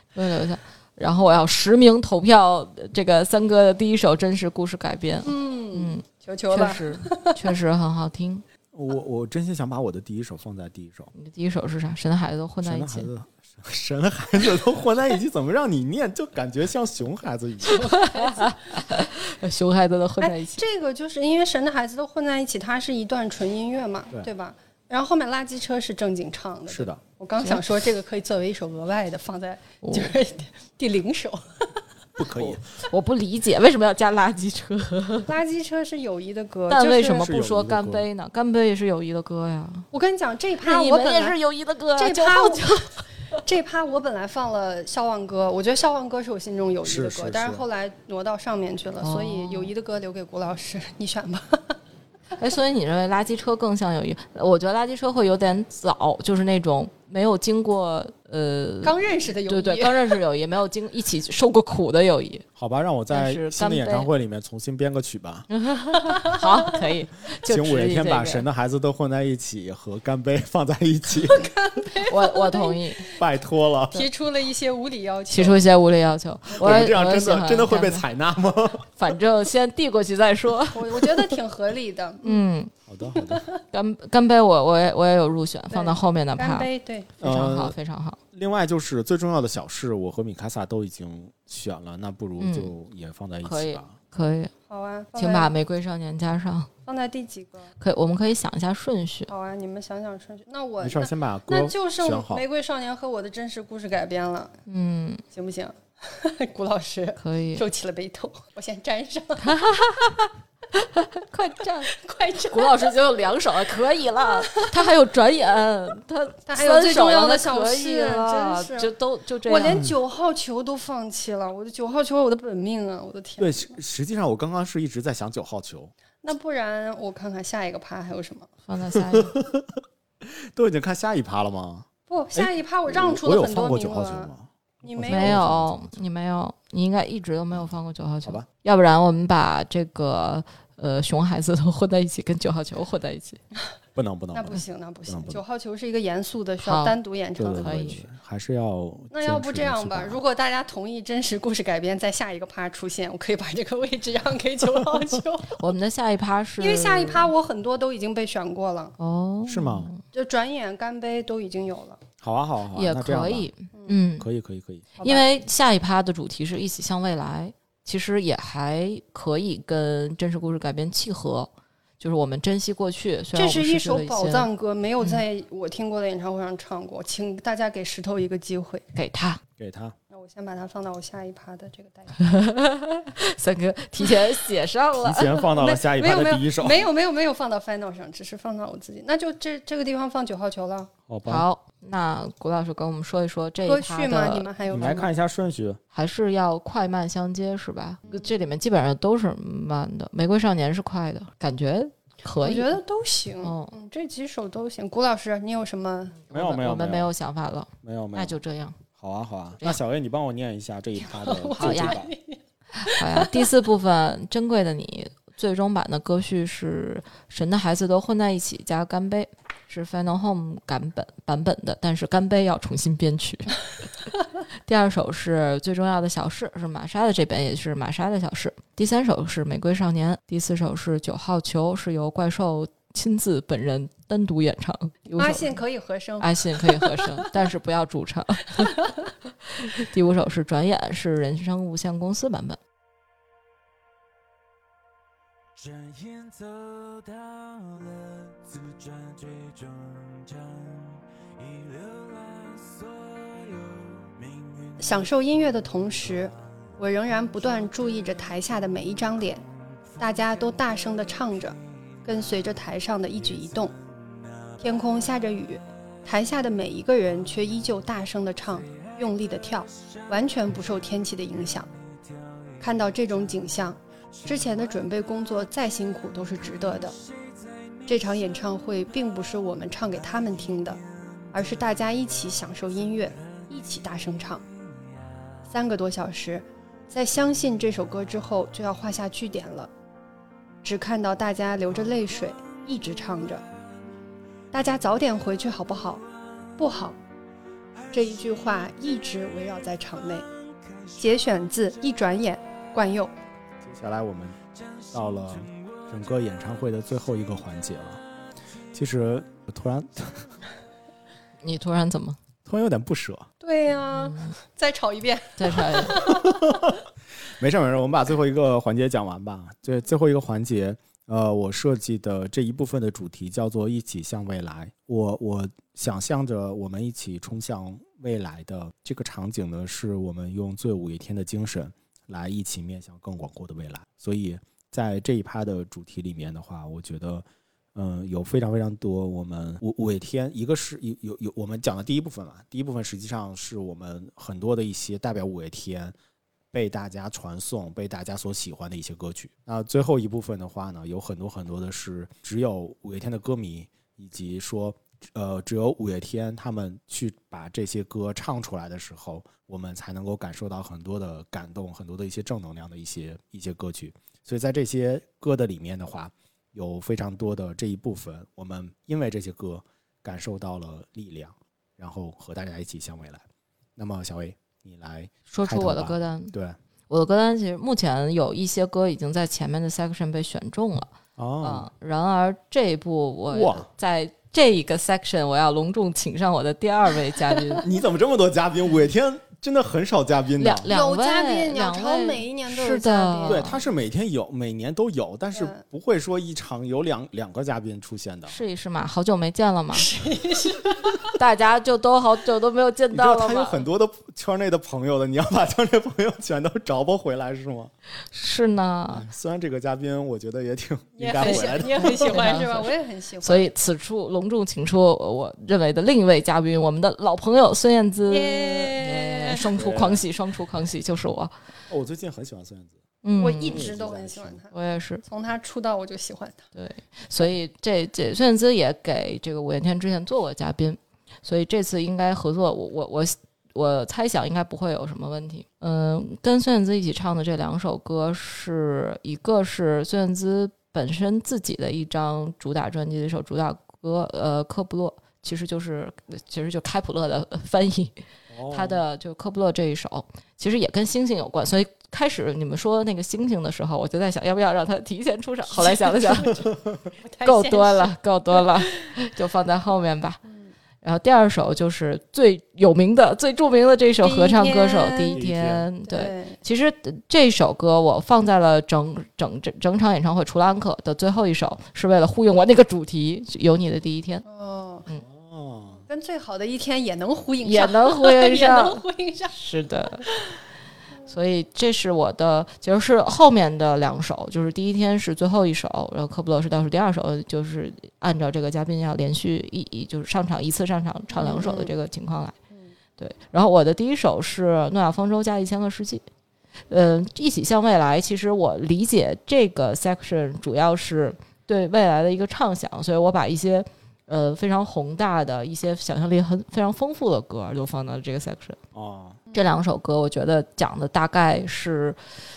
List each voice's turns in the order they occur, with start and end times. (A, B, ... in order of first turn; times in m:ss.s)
0:00.1-0:08.4 A
0:05.2-0:07.4 B
0:08.7-0:11.1 C
0:11.1-0:13.1 A
0:12.6-0:18.1 C
0:17.8-0:18.6 B
0:17.8-0:20.6 A
0:20.2-0:31.8 B
0:26.7-0:27.0 C
0:29.8-0:30.1 A
0:32.2-0:32.7 C
0:32.4-0:35.3 A
0:35.2-0:37.3 B
0:36.7-0:39.8 A
0:37.2-0:38.0 C
0:39.9-0:41.4 B
0:40.6-0:42.9 A
0:42.0-0:51.8 B
0:46.8-0:47.6 C
0:49.0-0:49.7 A
0:52.4-0:59.0 A
0:58.8-1:00.2 B
0:59.5-1:02.4 A
1:02.6-1:05.5 C
1:03.1-1:04.1 A
1:05.5-1:08.4 A
1:06.0-1:06.5 B
1:07.4-1:11.5 C
1:11.3-1:13.2 B
1:12.1-1:13.0 A
1:13.2-1:14.0 C
1:13.9-1:15.6 B
1:15.3-1:18.0 A
1:16.6-1:18.9 C
1:19.0-1:21.4 A
1:20.7-1:22.5 B
1:22.2-1:22.7 A
1:22.9-1:23.4 C
1:23.1-1:23.6 B
1:23.7-1:26.7 A
1:25.7-1:27.1 B
1:27.2-1:27.8 C
1:27.2-1:28.2 A
1:28.3-1:33.9 C
1:32.4-1:32.7 A
1:33.4-1:34.5 A
1:34.7-1:35.5 B
1:35.2-1:36.7 A
1:36.8-1:37.7 B
1:37.8-1:39.3 A
1:39.3-1:44.5 B
1:40.8-1:42.4 C
1:44.7-1:45.2 A
1:45.3-1:49.6 B
1:47.2-1:47.6 A
1:49.4-1:51.9 A
1:51.8-1:53.0 B
1:52.5-1:59.8 A
1:54.4-1:54.8 B
1:56.4-1:58.9 B
1:59.4-2:03.8 B
2:03.4-2:05.9 C
2:06.2-2:08.5 B
2:08.7-2:09.3 A
2:08.9-2:16.0 C
2:12.1-2:14.3 B
2:14.8-2:15.5 B
2:15.1-2:23.4 A
2:23.9-2:25.4 C
2:24.3-2:27.9 B
2:26.6-2:27.0 A
2:27.4-2:30.2 C
2:27.5-2:28.0 A
2:29.1-2:35.6 B
2:35.5-2:37.3 A
2:36.6-2:38.9 B
2:39.0-2:40.0 A
2:39.5-2:39.9 C
2:40.1-2:42.0 B
2:42.2-2:43.5 C
2:42.7-2:44.3 A
2:43.7-2:44.0 B
2:44.2-2:45.0 C
2:45.0-2:45.3 B
2:45.0-2:54.5 A
2:53.3-2:58.8 B
2:58.9-2:59.4 A
2:59.6-3:00.0 C
3:00.1-3:02.2 B
3:02.2-3:05.4 A
3:05.0-3:06.8 C
3:05.6-3:10.9 B
3:11.1-3:11.4 C
3:11.3-3:14.5 A
3:13.6-3:15.1 B
3:14.7-3:15.8 C
3:15.9-3:22.8 A
3:22.4-3:26.2 B
3:23.4-3:23.7 A
3:26.3-3:28.8 A
3:26.3-3:27.1 C
3:27.8-3:28.4 C
3:29.0-3:32.1 C
3:31.0-3:33.4 B
3:31.5-3:32.0 A
3:32.8-3:43.7 A
3:44.6-3:55.6 A
3:55.2-3:57.3 B
3:56.2-3:58.9 A
3:58.6-3:58.9 B
3:59.6-4:02.6 A
4:05.6-4:14.8 D
4:14.8-4:19.4 B
4:20.0-4:23.7 B
4:24.6-4:31.7 B
4:32.6-4:37.0 B
4:37.9-4:40.8 B
4:41.3-4:44.4 B
4:45.4-4:49.7 B
4:50.6-4:53.4 B
4:54.5-4:56.0 B
4:56.6-4:57.0 B
4:57.9-5:00.3 B
5:00.9-5:03.1 B
5:03.6-5:04.4 C
5:04.9-5:08.0 C
5:08.7-5:10.3 C
5:11.4-5:12.2 A
5:12.4-5:13.3 C
5:13.4-5:16.6 B
5:14.0-5:14.3 A
5:15.4-5:16.1 A
5:16.0-5:16.8 C
5:17.3-5:45.9 C
5:46.5-6:13.2 C
6:13.8-6:16.6 C
6:15.3-6:16.3 A
6:16.9-6:20.9 A
6:21.2-6:21.7 C
6:21.4-6:27.6 A
6:23.3-6:23.7 C
6:27.6-6:30.7 C
6:30.4-6:33.6 A
6:30.7-6:33.5 B
6:33.2-6:38.4 C
6:35.3-6:35.6 B
6:38.3-6:39.9 A
6:39.7-6:41.1 B
6:41.0-6:43.7 A
6:42.9-6:47.7 C
6:48.1-6:49.0 A
6:48.9-6:52.2 C
6:51.0-6:53.5 B
6:51.2-6:52.7 A
6:53.2-7:01.3 A
6:58.1-6:59.4 B
6:59.5-7:00.0 C
7:01.7-7:02.8 C
7:03.0-7:03.7 A
7:03.2-7:06.4 B
7:03.4-7:04.4 C
7:04.5-7:05.0 A
7:06.5-7:28.0 A
7:28.3-7:28.8 C
7:28.5-7:36.4 A
7:35.5-7:38.9 B
7:37.2-7:40.2 A
7:40.8-7:54.2 A
7:44.0-7:45.2 B
7:45.1-7:45.6 C
7:45.8-7:46.4 B
7:54.2-7:54.9 B
7:55.0-7:55.8 C
7:55.9-7:59.4 B
7:57.4-8:00.1 A
8:00.0-8:00.4 B
8:01.1-8:12.3 A
8:11.1-8:11.7 B
8:13.0-8:16.0 A
8:16.7-8:28.6 A
8:28.7-8:29.2 C
8:29.3-8:32.0 A